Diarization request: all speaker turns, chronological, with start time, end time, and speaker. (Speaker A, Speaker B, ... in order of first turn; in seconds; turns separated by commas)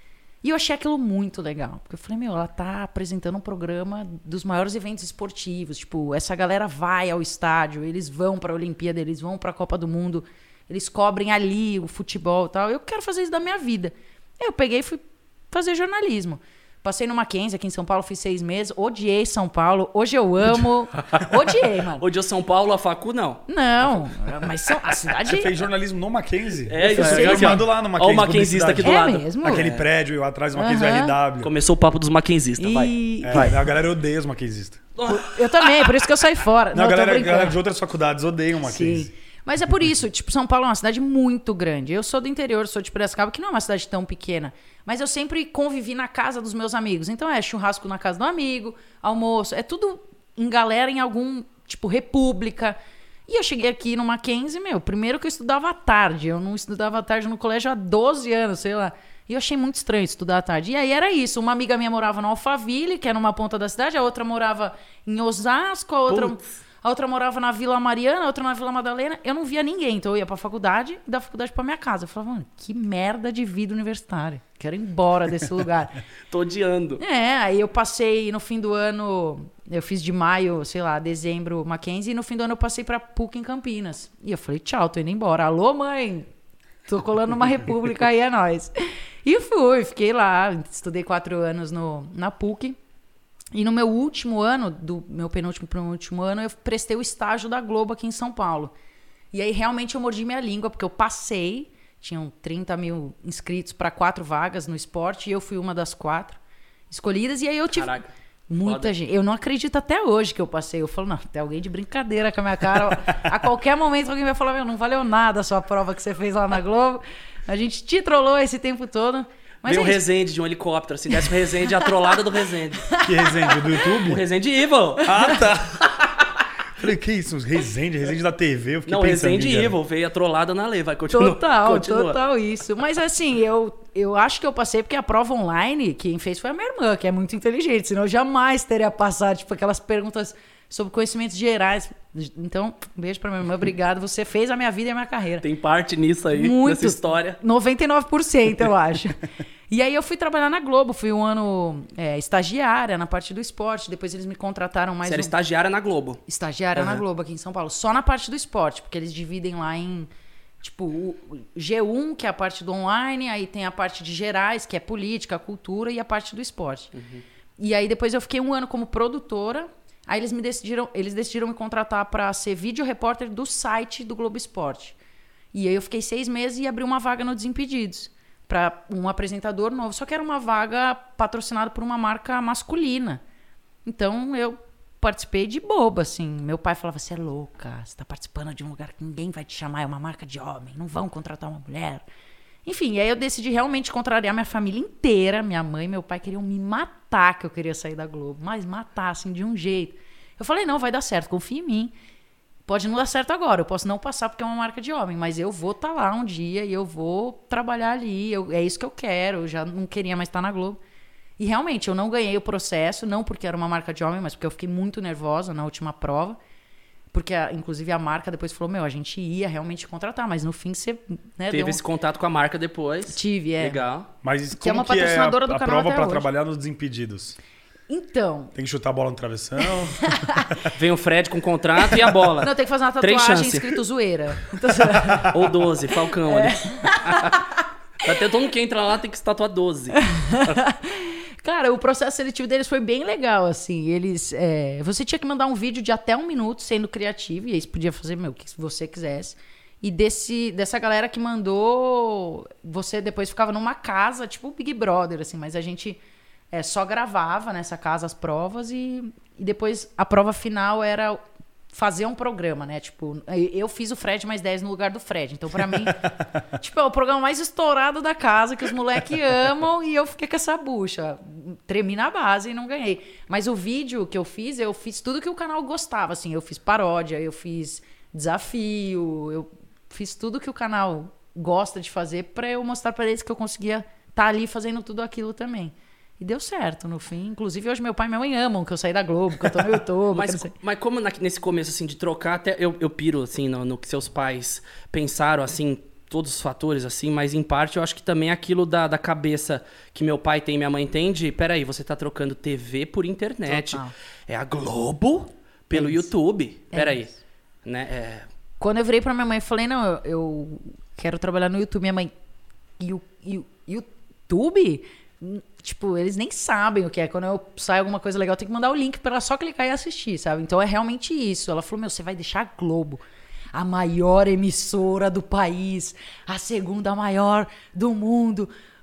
Speaker A: 0.4-22.0, Speaker B: 22.0-23.4, Speaker A: 23.5-25.6, Speaker C: 25.3-31.5, Speaker B: 26.7-29.9, Speaker A: 26.8-27.6, Speaker A: 28.8-29.6, Speaker A: 30.6-31.1, Speaker B: 31.4-33.5, Speaker A: 32.6-33.6, Speaker C: 33.2-34.8, Speaker B: 35.0-36.0, Speaker A: 35.1-37.6, Speaker C: 36.7-39.1, Speaker A: 38.6-76.0, Speaker B: 66.1-66.4, Speaker B: 76.3-77.0, Speaker A: 77.0-86.3, Speaker A: 86.9-88.7, Speaker A: 89.2-92.8, Speaker A: 93.5-98.7, Speaker A: 99.3-106.4, Speaker A: 106.9-120.0, Speaker B: 107.7-108.9, Speaker B: 119.7-122.9, Speaker A: 121.2-122.0, Speaker A: 122.9-123.9, Speaker C: 123.0-124.2, Speaker B: 124.0-126.3, Speaker C: 125.0-125.8, Speaker C: 126.8-129.8, Speaker B: 128.9-132.2, Speaker A: 131.1-145.5, Speaker B: 145.4-147.4, Speaker A: 146.3-155.3, Speaker B: 155.1-156.2, Speaker A: 156.3-160.1, Speaker B: 156.8-157.0, Speaker A: 160.6-166.9, Speaker B: 166.9-167.2, Speaker A: 167.6-175.0, Speaker A: 175.5-183.2, Speaker A: 183.8-192.1, Speaker A: 192.7-201.9, Speaker A: 202.7-210.8, Speaker A: 211.4-216.4, Speaker A: 217.1-221.8, Speaker B: 221.5-224.1, Speaker A: 223.1-223.8, Speaker C: 224.2-227.4, Speaker A: 224.6-226.3, Speaker A: 227.9-228.5, Speaker C: 228.6-230.7, Speaker A: 230.0-230.5, Speaker B: 230.7-233.8, Speaker A: 231.9-235.3, Speaker C: 234.9-235.4, Speaker B: 235.3-237.4, Speaker A: 236.2-237.5, Speaker B: 238.0-240.6, Speaker A: 240.0-256.0, Speaker A: 256.5-290.5, Speaker C: 265.8-266.1, Speaker B: 290.1-307.1, Speaker A: 303.5-303.9, Speaker A: 305.7-306.1, Speaker A: 306.7-307.1, Speaker B: 307.6-308.3, Speaker A: 308.6-312.1, Speaker A: 312.8-323.0, Speaker A: 323.5-328.5